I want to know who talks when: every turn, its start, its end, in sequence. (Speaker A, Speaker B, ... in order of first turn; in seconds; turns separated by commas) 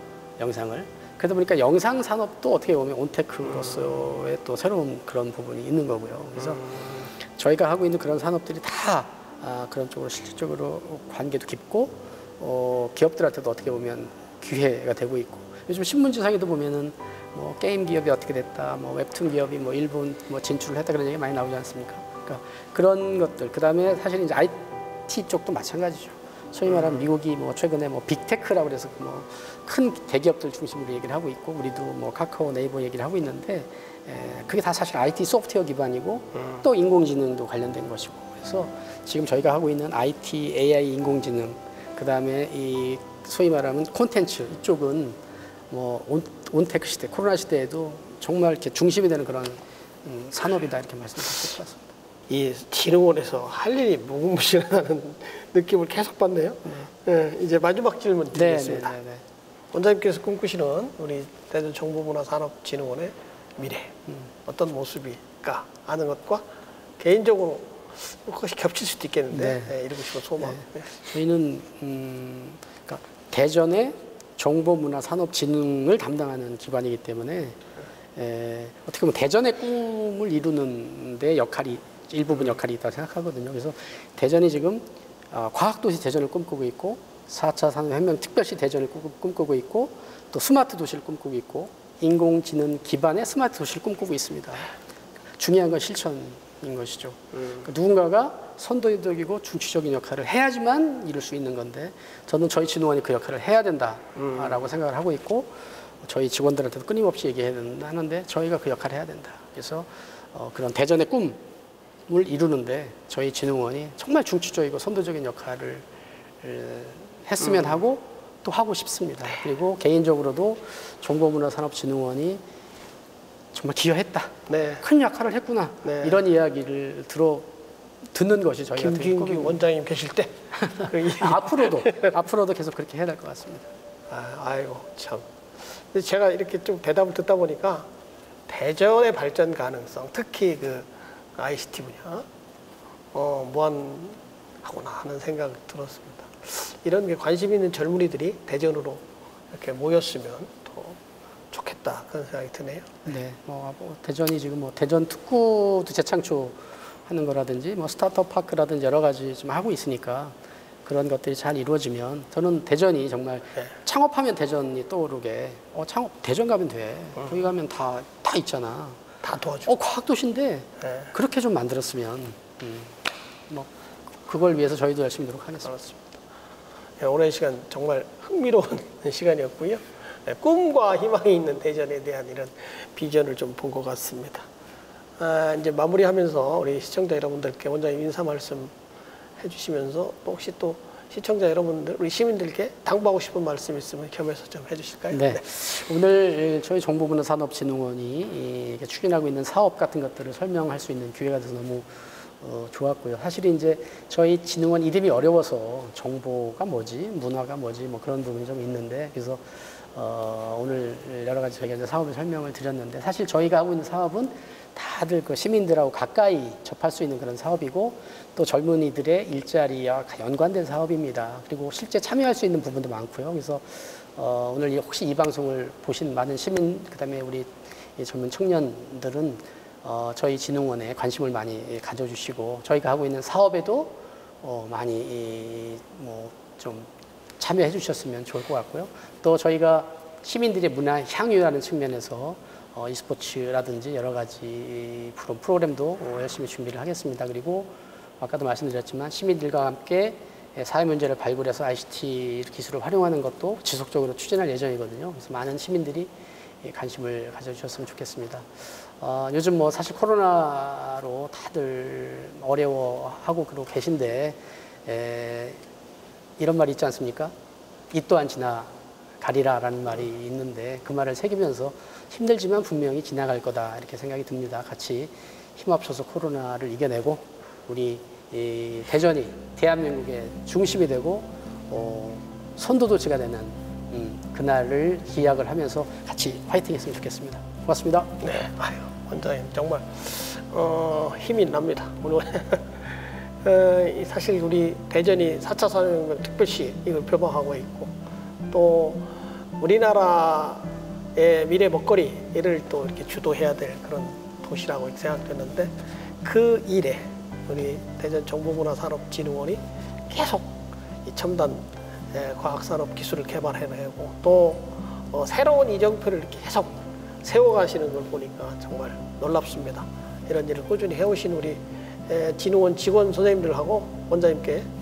Speaker A: 0.4-45.2, Speaker A: 45.7-51.8, Speaker B: 52.3-59.0, Speaker A: 58.3-59.2, Speaker B: 59.7-66.4, Speaker B: 67.0-70.9, Speaker A: 69.3-69.8, Speaker A: 70.4-77.6, Speaker A: 78.2-94.7, Speaker A: 95.4-111.4, Speaker B: 104.2-104.4, Speaker A: 112.1-115.8, Speaker A: 116.4-122.4, Speaker A: 123.5-127.5, Speaker B: 124.5-124.8, Speaker B: 125.8-126.2, Speaker A: 128.1-129.6, Speaker B: 128.8-132.1, Speaker A: 130.6-133.7, Speaker B: 134.1-137.9, Speaker B: 138.5-142.2, Speaker B: 143.1-151.0, Speaker B: 151.5-153.1, Speaker A: 153.1-169.0, Speaker B: 169.2-169.7, Speaker A: 169.6-173.7, Speaker A: 174.2-176.0, Speaker B: 177.0-184.5, Speaker B: 185.2-188.7, Speaker B: 189.4-195.4, Speaker A: 195.1-265.6, Speaker A: 266.4-267.3, Speaker A: 267.9-288.2, Speaker B: 288.2-297.9, Speaker B: 298.5-324.7